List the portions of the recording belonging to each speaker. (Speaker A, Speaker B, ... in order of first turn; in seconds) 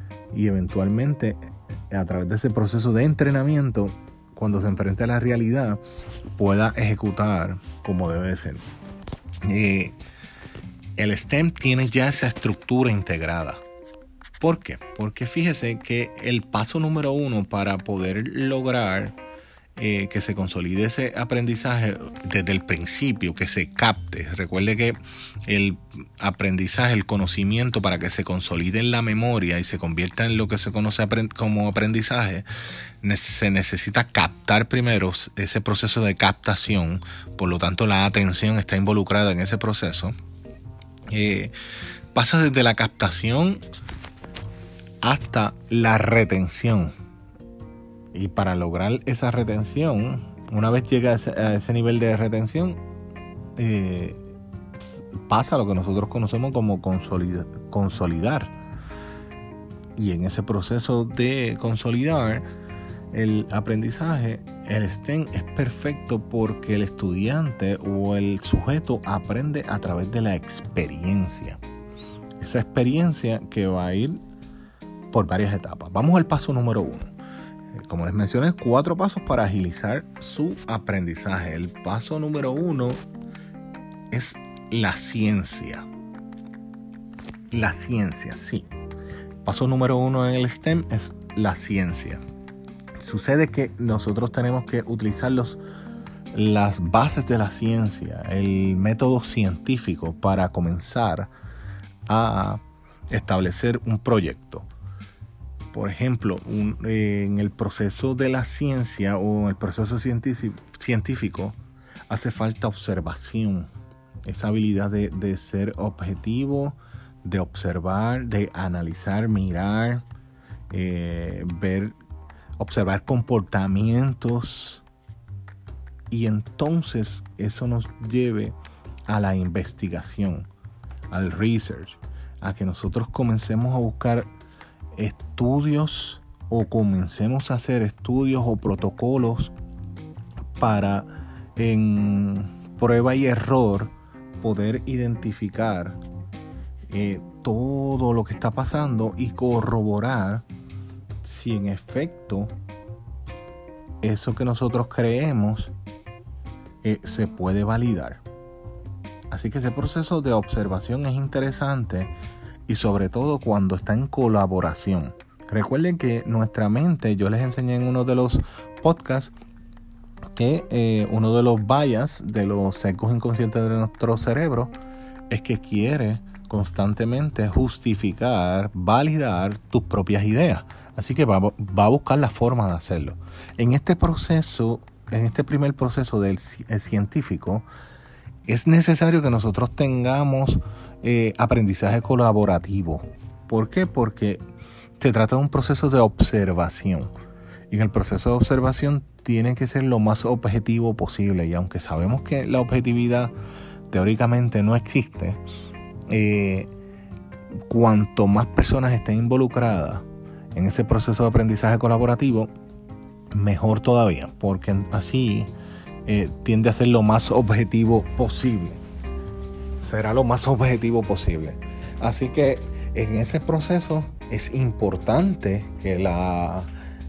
Speaker A: 0.3-5.8, 6.3-8.6, 9.4-9.9, 11.0-13.6, 14.4-19.1, 19.8-32.5, 33.0-40.1, 41.1-41.5, 42.1-43.6, 45.0-46.9, 48.1-52.8, 53.5-54.2, 54.8-58.5, 60.0-62.5, 63.1-71.6, 72.4-74.2, 75.1-77.1, 77.7-83.0, 84.1-85.8, 87.5-88.7, 89.4-92.2, 93.0-95.6, 96.3-101.3, 102.1-104.7, 105.7-113.7, 114.2-120.0, 120.7-122.0, 122.6-124.8, 126.1-128.6, 129.1-130.5, 131.1-134.3, 134.9-139.5, 140.6-146.0, 146.9-150.4, 151.2-152.5, 154.0-155.7, 156.8-158.2, 159.3-162.1, 162.7-169.3, 170.3-174.7, 175.3-187.7, 188.4-194.4, 195.0-197.1, 197.7-203.3, 203.9-205.4, 206.1-206.7, 207.7-210.0, 210.5-212.5, 213.3-215.5, 216.1-218.8, 219.8-226.7